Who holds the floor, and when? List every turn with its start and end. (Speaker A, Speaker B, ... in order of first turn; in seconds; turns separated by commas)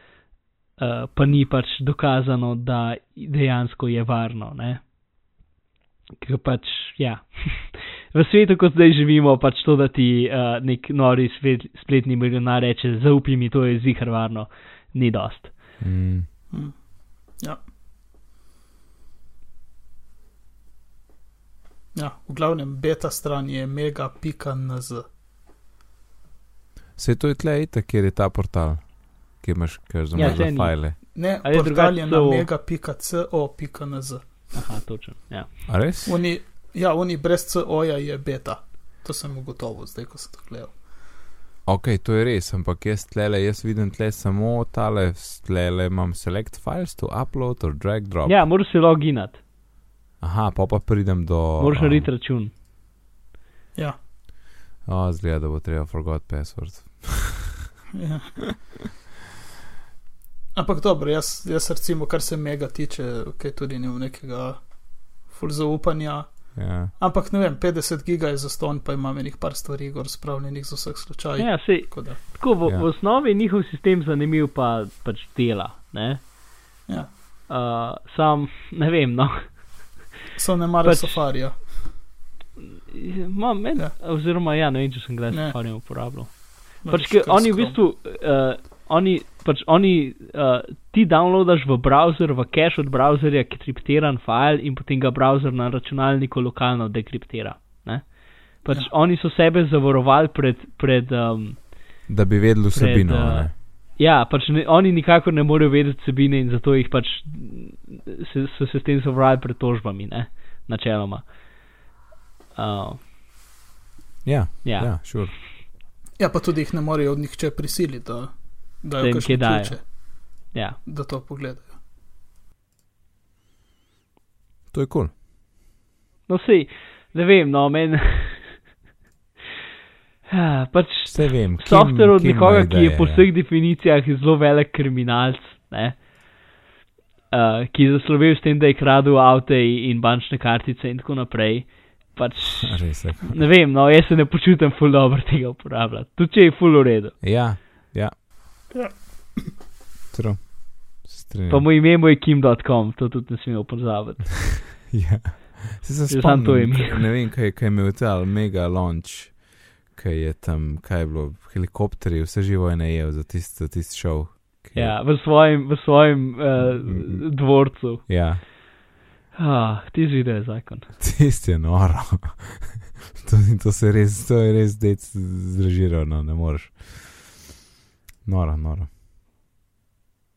Speaker A: 0.8-4.9, Speaker A: 6.2-15.6, Speaker B: 15.8-16.3, Speaker C: 16.5-16.8, Speaker C: 21.9-25.0, Speaker B: 27.0-30.9, Speaker A: 30.1-32.5, Speaker C: 30.2-30.4, Speaker C: 31.1-34.5, Speaker A: 34.5-35.5, Speaker B: 35.7-36.1, Speaker C: 36.0-40.8, Speaker B: 41.7-48.4, Speaker A: 48.2-49.4, Speaker B: 50.2-52.1, Speaker A: 51.6-52.5, Speaker B: 54.8-57.6, Speaker C: 57.9-58.4, Speaker C: 60.5-64.6, Speaker C: 65.2-72.2, Speaker B: 66.5-66.9, Speaker A: 71.4-76.3, Speaker C: 76.9-77.1, Speaker A: 77.5-79.8, Speaker C: 80.4-81.7, Speaker A: 80.8-81.2, Speaker A: 82.9-101.8, Speaker C: 85.3-85.6, Speaker C: 86.8-87.8, Speaker B: 102.1-103.5, Speaker A: 102.7-111.3, Speaker A: 112.5-113.0, Speaker B: 114.2-115.3, Speaker A: 114.6-115.2, Speaker C: 116.2-119.9, Speaker A: 119.0-120.8, Speaker C: 120.8-121.7, Speaker B: 124.7-125.1, Speaker A: 126.3-128.6, Speaker A: 130.3-136.0, Speaker B: 131.1-133.2, Speaker A: 137.3-147.2, Speaker B: 142.6-143.4, Speaker B: 147.2-148.1, Speaker C: 148.7-149.5, Speaker B: 150.1-151.7, Speaker A: 151.5-154.7, Speaker B: 154.9-165.0, Speaker A: 156.1-157.1, Speaker A: 164.7-168.1, Speaker B: 166.6-168.4, Speaker A: 169.3-170.9, Speaker B: 171.0-177.4, Speaker B: 178.2-178.9